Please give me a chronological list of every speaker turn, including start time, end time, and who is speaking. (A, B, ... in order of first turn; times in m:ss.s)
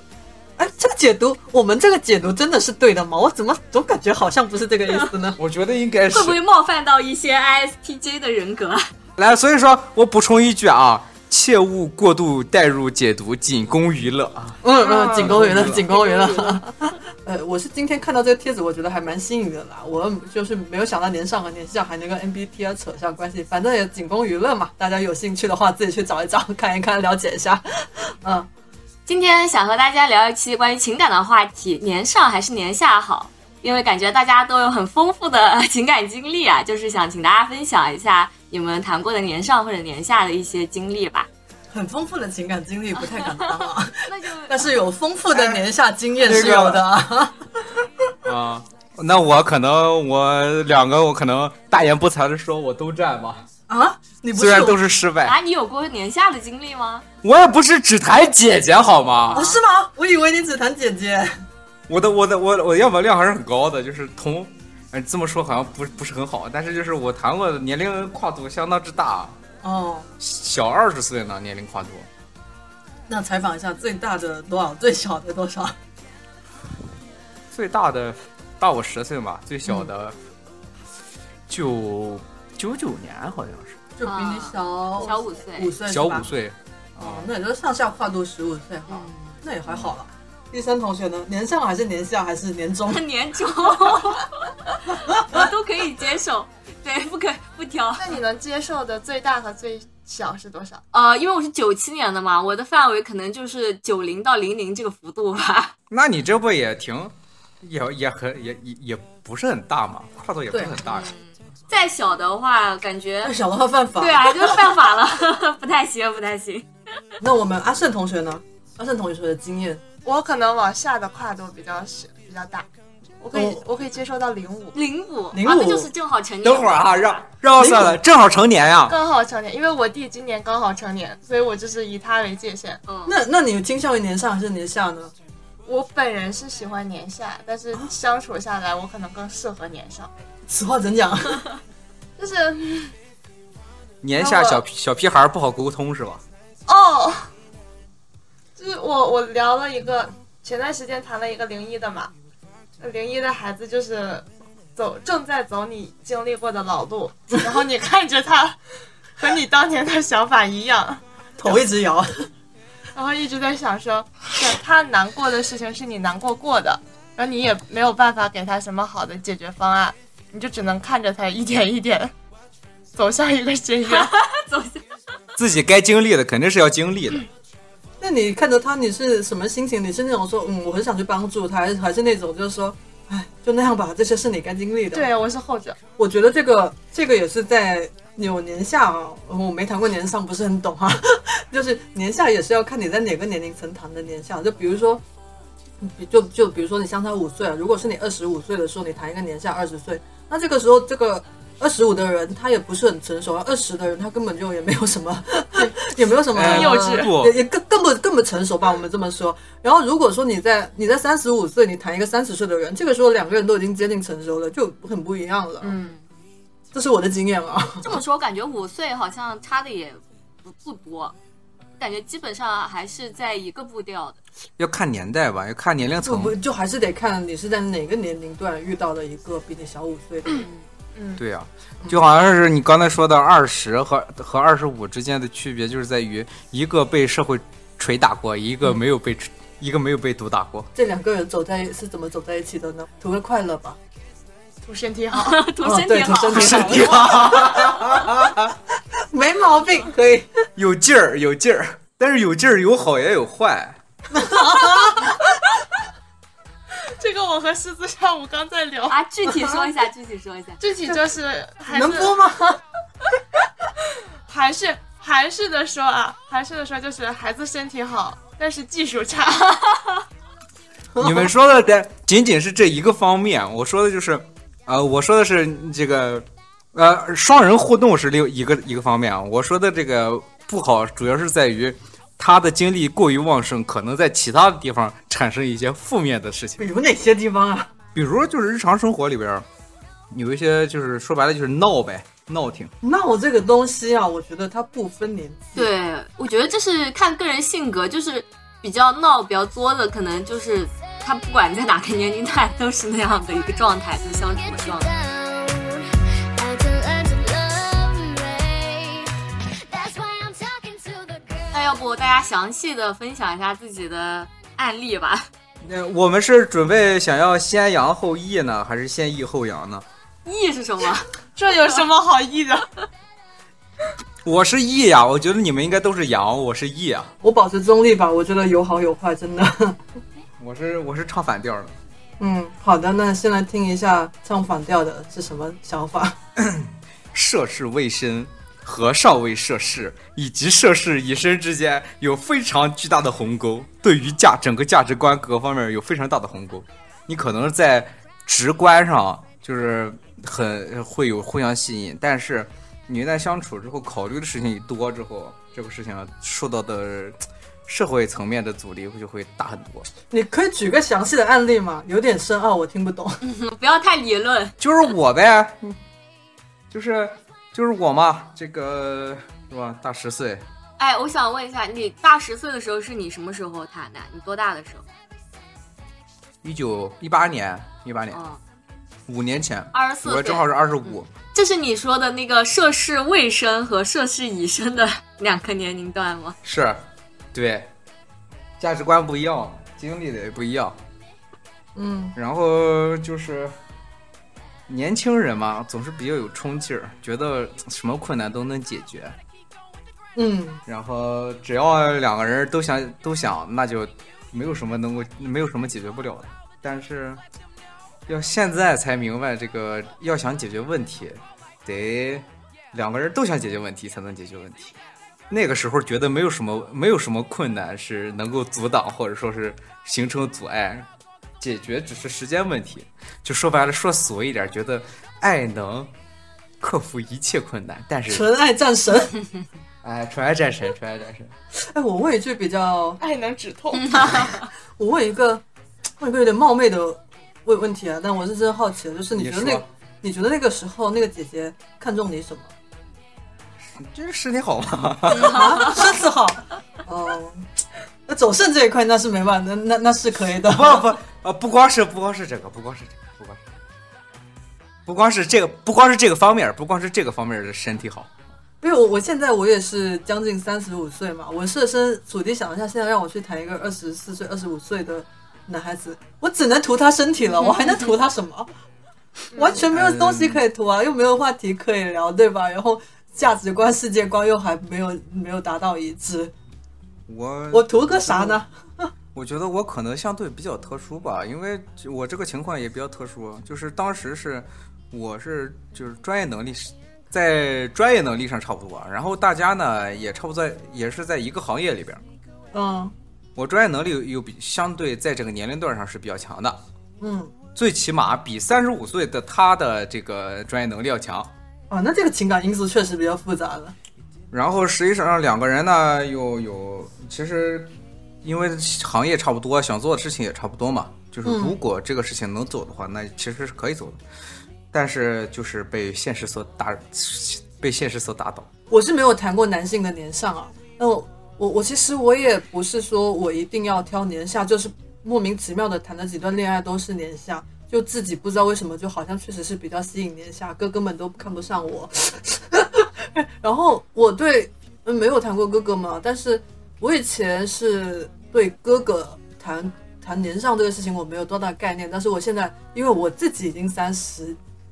0:00.6-0:05.4 A
0:05.4-0:06.4 B
0:06.1-0:08.8 C
0:09.2-0:15.8 B
0:14.6-0:28.5 A
0:14.8-0:16.6 C
0:29.1-0:41.3 C
0:41.7-0:47.8 A
0:44.0-0:44.6 C
0:45.3-0:45.6 B
0:46.2-0:46.8 B
0:48.2-0:53.4 B
0:53.7-0:54.8 A
0:54.4-0:55.4 B
0:55.2-0:57.0 C
0:57.2-0:59.6 B
0:59.3-1:01.4 A
1:01.9-1:09.4 B
1:09.6-1:10.1 A
1:10.2-1:12.1 B
1:13.1-1:15.7 A
1:17.5-1:20.2 B
1:21.5-1:23.8 B
1:24.0-1:26.3 A
1:24.0-1:25.7 C
1:25.9-1:27.3 B
1:27.0-1:33.0 A
1:28.9-1:29.3 C
1:32.9-1:38.1 C
1:34.9-1:35.5 A
1:38.0-1:40.8 D
1:40.9-1:45.7 C
1:45.9-1:51.1 B
1:50.8-1:53.4 C
1:53.2-1:54.9 A
1:54.0-1:56.7 C
1:57.2-1:59.8 A
2:00.0-2:02.7 D
2:03.2-2:04.7 D
2:03.3-2:03.6 A
2:04.7-2:07.2 C
2:05.3-2:05.9 A
2:06.4-2:09.0 B
2:07.6-2:08.0 A
2:08.9-2:12.8 D
2:12.9-2:13.1 C
2:13.0-2:15.1 A
2:15.6-2:20.1 D
2:20.5-2:21.5 A
2:22.2-2:22.9 D
2:24.0-2:26.2 B
2:24.2-2:24.6 D
2:26.7-2:27.3 D
2:28.6-2:32.1 D
2:32.8-2:38.6 D
2:39.2-2:41.0 D
2:41.4-2:42.3 A
2:42.9-2:52.1 D
2:52.9-2:54.2 D
2:53.9-2:54.8 C
2:55.4-2:57.2 B
2:58.0-3:05.1 A
3:04.9-3:05.8 D
3:06.0-3:15.0 A
3:15.8-3:35.7 A
3:26.3-3:27.4 B
3:26.4-3:27.1 D
3:35.6-3:36.0 C
3:36.7-3:38.0 A
3:37.8-3:41.1 C
3:41.8-3:44.2 C
3:44.6-3:46.3 B
3:46.0-3:50.4 A
3:50.4-3:50.6 C
3:50.9-3:51.2 D
3:51.2-4:00.7 B
4:00.7-4:03.8 A
4:04.6-4:05.4 D
4:05.1-4:07.3 C
4:05.6-4:08.0 A
4:06.3-4:08.5 B
4:09.0-4:10.3 A
4:10.6-4:13.8 B
4:14.1-4:15.2 A
4:16.9-4:19.0 D
4:18.9-4:20.6 C
4:20.6-4:22.2 D
4:21.7-4:22.6 A
4:24.2-4:29.6 D
4:30.9-4:31.3 A
4:31.0-4:46.6 B
4:46.6-4:47.7 A
4:47.9-4:49.4 B
4:50.1-4:52.7 B
4:52.8-4:55.7 A
4:55.6-5:04.9 C
5:04.3-5:09.1 E
5:09.7-5:11.7 E
5:11.5-5:15.3 C
5:15.6-5:19.8 B
5:20.2-5:21.1 C
5:21.4-5:22.7 D
5:24.2-5:27.1 B
5:27.2-5:29.8 A
5:30.4-5:31.8 B
5:32.2-5:36.2 A
5:36.4-5:59.9 B
6:00.1-6:03.2 A
6:03.2-6:04.6 C
6:04.6-6:05.8 B
6:06.7-6:10.4 B
6:10.8-6:14.9 C
6:16.4-6:18.2 B
6:18.1-6:18.4 C
6:19.1-6:21.1 B
6:19.7-6:26.4 C
6:26.4-6:27.7 B
6:28.6-6:30.8 B
6:31.8-6:32.1 A
6:32.2-6:33.5 B
6:34.7-6:39.2 B
6:40.1-6:40.6 A
6:40.7-6:47.2 B
6:48.1-6:54.8 B
6:55.3-7:00.9 B
7:01.4-7:05.9 B
7:06.6-7:08.2 B
7:08.1-7:09.2 A
7:09.8-7:11.3 B
7:11.5-7:13.0 A
7:13.0-7:14.3 D
7:14.0-7:14.4 C
7:14.8-7:15.4 A
7:16.0-7:22.5 A
7:19.1-7:19.7 B
7:23.6-7:25.7 B
7:25.1-7:27.5 A
7:25.3-7:25.8 C
7:28.1-7:30.9 A
7:30.4-7:33.5 B
7:34.8-7:38.1 B
7:38.6-7:48.5 A
7:49.3-7:56.3 A
7:49.3-7:49.6 D
7:49.7-7:50.4 B
7:57.1-7:58.4 B
7:57.5-7:58.8 A
7:59.1-8:12.0 B
8:12.5-8:12.9 A
8:13.4-8:16.6 B
8:17.0-8:17.3 A
8:17.5-8:21.3 B
8:21.7-8:23.7 A
8:24.3-8:34.0 B
8:31.2-8:31.6 A
8:34.7-8:38.5 B
8:38.7-9:04.4 A